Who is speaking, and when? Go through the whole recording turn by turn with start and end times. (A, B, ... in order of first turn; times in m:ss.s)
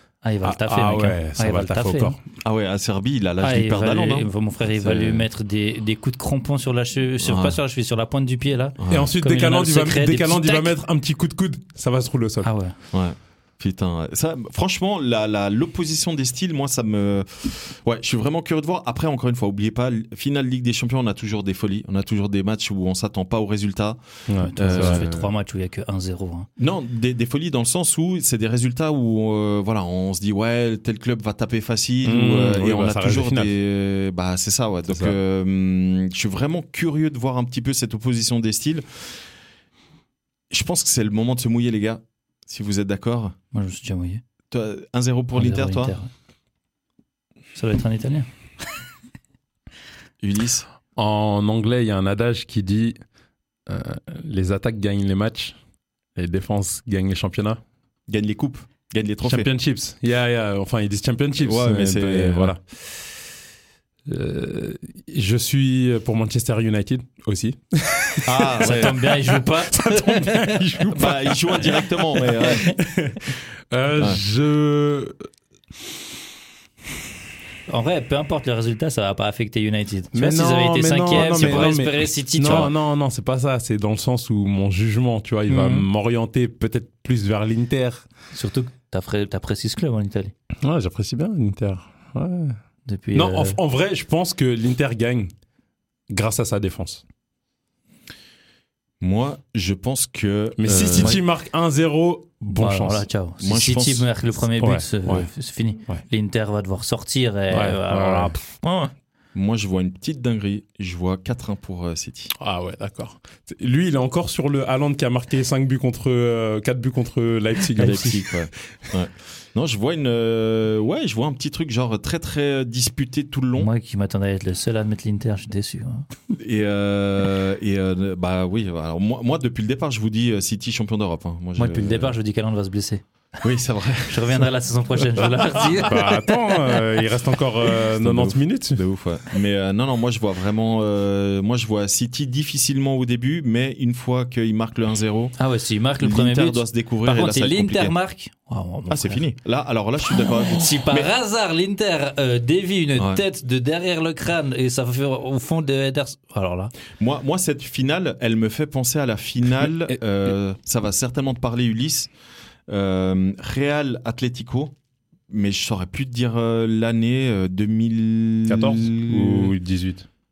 0:00.2-0:02.2 A
0:00.4-0:02.2 B
0:02.4-0:05.3 C
0:03.4-0:10.8 A
0:07.2-0:07.6 C
0:08.8-0:09.1 C
0:08.9-0:12.5 B
0:12.4-0:12.8 A
0:12.9-0:24.0 C
0:24.3-0:25.0 B
0:24.4-0:26.5 A
0:24.6-0:25.3 C
0:26.6-0:39.1 C
0:32.0-0:33.5 B
0:34.9-0:35.2 B
0:40.5-0:43.4 C
0:43.5-0:44.2 A
0:44.5-0:46.0 C
0:45.4-0:46.1 A
0:47.6-0:48.3 A
0:50.2-0:50.7 C
0:51.0-0:53.0 B
0:53.7-0:55.6 B
0:56.2-0:57.6 B
0:58.1-0:59.5 C
0:59.2-1:03.1 B
1:01.4-1:02.6 C
1:04.1-1:15.2 B
1:08.3-1:09.0 C
1:08.6-1:10.6 A
1:10.9-1:12.7 C
1:12.4-1:12.8 A
1:14.0-1:14.2 C
1:17.7-1:22.7 A
1:20.1-1:28.1 B
1:21.2-1:21.8 C
1:25.5-1:25.9 A
1:28.3-1:30.3 A
1:30.6-1:32.6 B
1:32.9-1:33.6 A
1:33.1-1:35.3 B
1:36.1-1:37.0 B
1:39.0-1:41.2 C
1:40.6-1:43.1 B
1:42.5-1:48.9 A
1:43.4-1:44.1 C
1:44.6-1:45.3 B
1:47.5-1:48.4 B
1:49.3-1:52.3 C
1:52.4-1:58.5 B
1:57.8-2:03.7 C
2:03.6-2:06.1 A
2:06.3-2:12.2 C
2:11.6-2:13.0 A
2:13.4-2:14.5 C
2:14.1-2:16.4 A
2:15.2-2:15.8 C
2:15.8-2:18.8 B
2:17.9-2:25.4 C
2:25.4-2:29.2 A
2:26.0-2:28.0 C
2:28.9-2:31.1 C
2:30.2-2:36.7 A
2:37.0-2:42.1 C
2:42.7-2:44.7 C
2:45.3-2:49.5 C
2:48.5-2:50.1 B